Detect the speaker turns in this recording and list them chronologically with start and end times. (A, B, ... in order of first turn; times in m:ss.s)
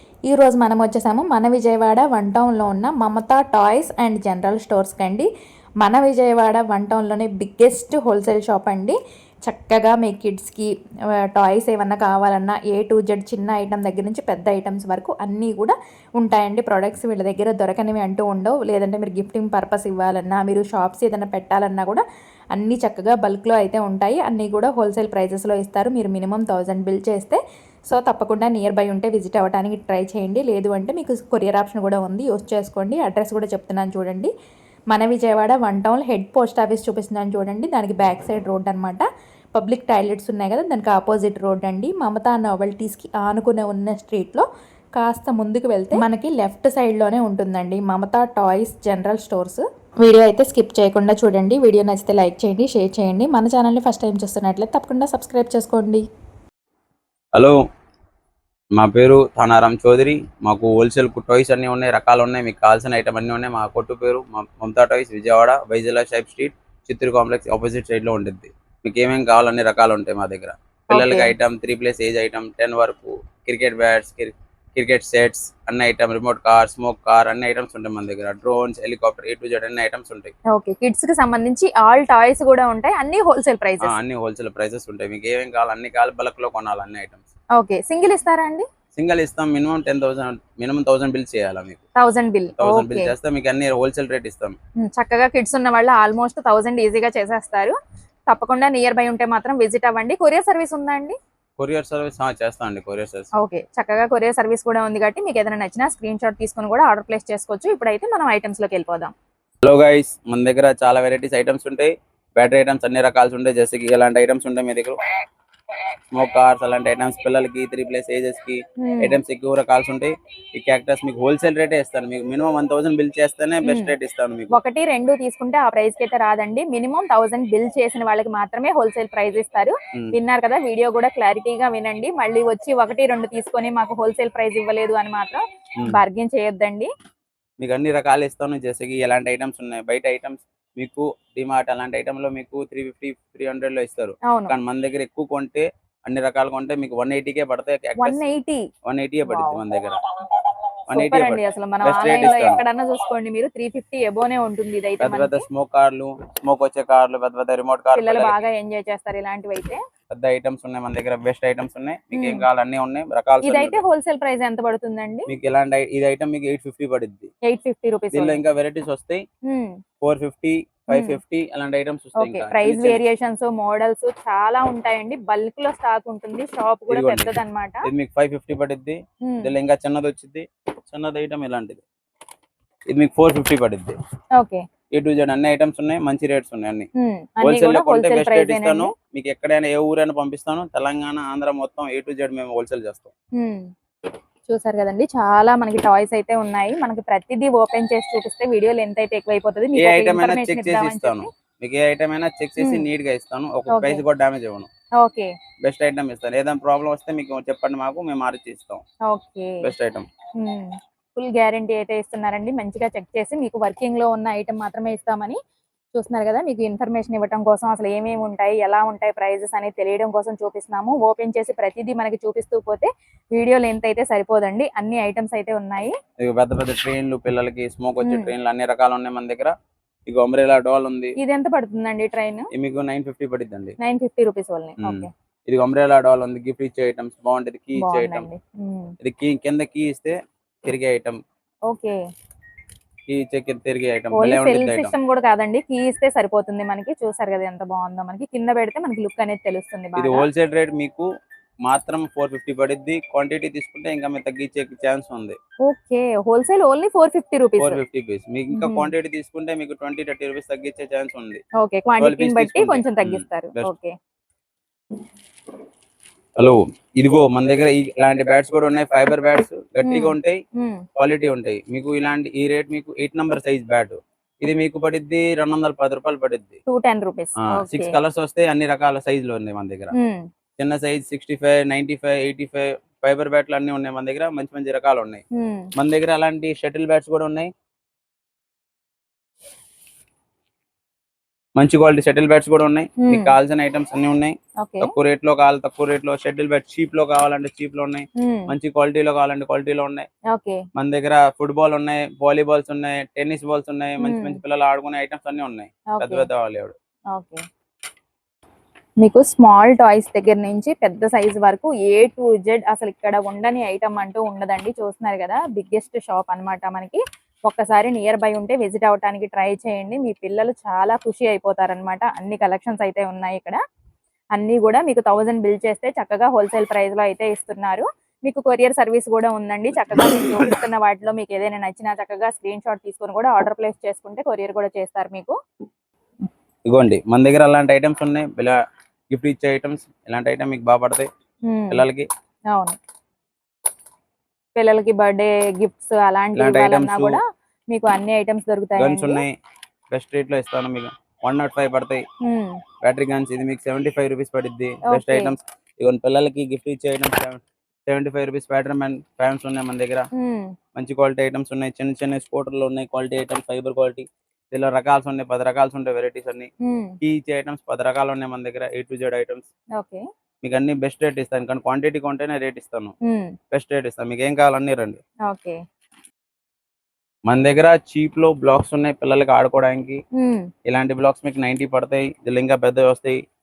0:00.3-0:05.3 A
0:05.8-0:10.7 A
0:11.4-0:27.4 A
0:27.9-0:34.3 A
0:34.9-0:44.4 A
0:45.0-0:56.0 A
0:58.8-1:20.3 B
1:10.9-1:11.3 C
1:20.5-1:24.0 C
1:23.8-1:27.2 B
1:27.6-1:28.7 C
1:29.0-1:31.8 B
1:32.0-1:33.1 C
1:32.6-1:34.6 B
1:34.8-1:37.8 C
1:38.3-1:41.2 C
1:41.6-1:43.3 B
1:43.4-1:49.1 C
1:49.6-1:55.0 B
1:56.2-2:04.6 B
1:58.8-1:59.2 C
2:03.6-2:04.0 C
2:04.5-2:16.9 C
2:17.6-2:28.2 B
2:24.3-2:24.5 C
2:28.0-2:28.6 C
2:28.9-2:30.0 B
2:29.2-2:29.6 C
2:30.9-2:32.6 B
2:30.9-2:35.4 C
2:35.0-2:38.4 B
2:38.0-2:39.8 C
2:40.1-2:43.8 B
2:42.1-2:42.4 C
2:43.4-2:45.3 C
2:45.3-2:47.3 B
2:47.5-2:48.4 C
2:48.1-2:49.2 B
2:49.5-2:49.8 C
2:50.0-2:53.0 B
2:50.9-2:51.2 C
2:52.2-2:57.9 C
2:56.9-2:57.3 B
2:57.8-3:01.8 B
2:59.3-2:59.5 C
3:02.9-3:04.0 B
3:04.4-3:04.6 C
3:05.0-3:06.9 B
3:07.0-3:08.9 C
3:07.4-3:13.1 B
3:13.4-3:13.7 C
3:14.5-3:21.3 C
3:19.8-3:24.7 B
3:22.6-3:22.8 C
3:23.7-3:24.0 C
3:25.0-3:25.3 C
3:25.6-3:28.8 B
3:29.1-3:29.7 C
3:29.6-3:30.1 B
3:30.4-3:35.4 C
3:35.9-3:46.0 C
3:46.2-3:49.5 B
3:48.0-3:48.3 C
3:50.1-3:51.2 B
3:51.2-3:52.5 C
3:52.5-3:53.8 B
3:53.8-3:55.1 C
3:54.8-3:58.3 B
3:57.8-3:58.9 C
3:59.0-4:01.2 B
4:01.7-4:02.0 C
4:03.1-4:04.9 B
4:04.1-4:10.3 C
4:10.0-4:11.1 B
4:11.7-4:15.4 B
4:15.7-4:17.8 C
4:17.6-4:21.4 B
4:18.5-4:18.9 C
4:21.6-4:23.9 C
4:22.0-4:23.7 B
4:26.4-4:30.4 B
4:29.8-4:30.8 C
4:31.0-4:36.6 B
4:36.7-4:38.0 C
4:37.4-4:39.9 B
4:39.9-4:40.2 C
4:40.6-4:45.2 B
4:45.4-4:45.7 C
4:45.8-4:47.5 B
4:51.6-5:00.1 B
4:53.0-4:53.4 C
4:54.6-4:54.9 C
4:58.2-4:58.5 C
5:00.3-5:00.6 C
5:00.8-5:06.8 B
5:04.0-5:04.4 C
5:05.9-5:06.3 C
5:07.1-5:07.4 C
5:09.0-5:23.6 C
5:24.4-5:35.4 C
5:36.7-5:38.6 B
5:39.1-5:41.1 B
5:41.5-5:41.8 C
5:41.7-5:42.1 B
5:44.6-5:49.2 C
5:46.4-5:47.2 B
5:48.8-5:49.4 B
5:49.9-5:52.0 B
5:52.2-5:52.6 C
5:52.8-6:00.1 B
5:54.9-5:55.4 C
6:00.2-6:00.5 C
6:00.8-6:06.5 B
6:06.6-6:07.0 C
6:07.0-6:09.5 B
6:09.8-6:10.0 C
6:10.4-6:13.0 B
6:13.1-6:13.4 C
6:13.5-6:15.0 B
6:15.3-6:15.6 C
6:17.3-6:20.0 B
6:20.2-6:20.5 C
6:20.7-6:23.2 B